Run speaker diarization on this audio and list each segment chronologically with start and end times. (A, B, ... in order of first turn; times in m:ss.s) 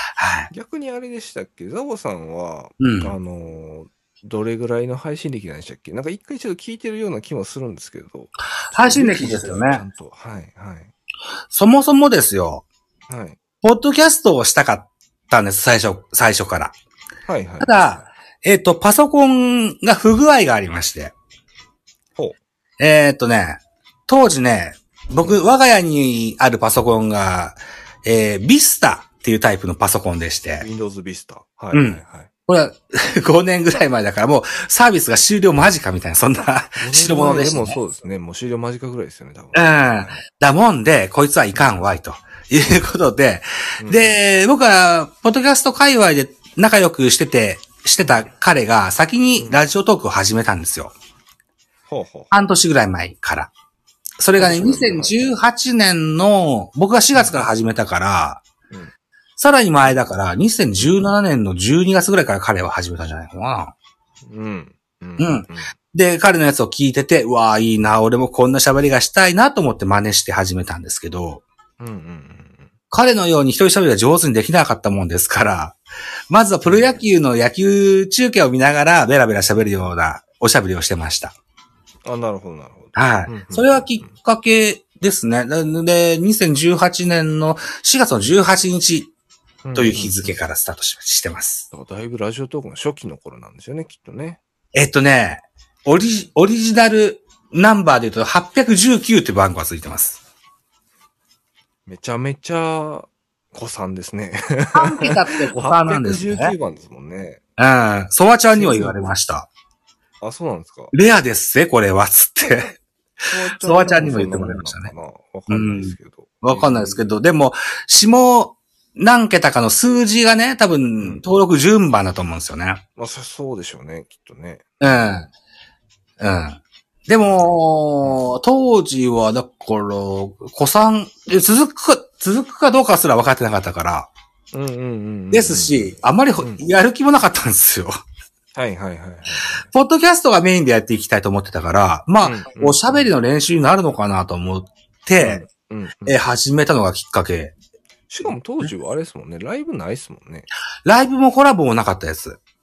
0:00.2-0:00.5 A
0:00.5-0:10.9 B
0:02.8-0:03.1 A
0:08.7-0:09.8 A
0:11.5-0:12.6 A
0:13.1-0:13.4 B
0:13.6-0:16.7 A
0:17.3-0:18.1 B
0:17.6-0:21.1 A
0:22.8-0:30.7 A
0:30.6-0:32.3 B
0:31.7-0:37.8 A
0:36.8-0:40.2 B
0:39.5-0:50.9 A
0:43.8-0:44.1 B
0:51.9-0:52.3 B
0:52.3-0:53.5 A
0:54.2-0:58.4 A
0:54.4-0:55.3 B
0:57.2-0:57.4 B
0:59.4-1:03.7 A
1:04.3-1:05.7 B
1:05.2-1:11.4 A
1:11.8-1:12.7 B
1:12.9-1:15.8 A
1:16.3-1:21.4 A
1:16.7-1:17.0 B
1:22.0-1:24.2 B
1:23.0-1:29.1 A
1:29.6-1:30.4 B
1:29.8-1:31.7 A
1:31.7-1:34.4 B
1:34.7-1:40.2 A
1:41.9-1:47.4 B
1:44.7-1:46.5 A
1:47.6-1:49.5 A
1:48.5-1:49.1 B
1:50.2-1:50.9 B
1:50.9-1:52.8 A
1:53.2-1:57.0 B
1:53.6-1:54.9 A
1:55.5-2:02.8 A
2:03.0-2:04.7 B
2:04.8-2:05.3 A
2:06.2-2:14.1 A
2:14.5-2:16.6 B
2:15.3-2:18.0 A
2:18.6-2:19.7 B
2:19.7-2:25.4 A
2:22.2-2:23.1 B
2:25.2-2:26.2 B
2:26.0-2:27.5 A
2:28.1-2:30.5 B
2:30.8-2:32.4 A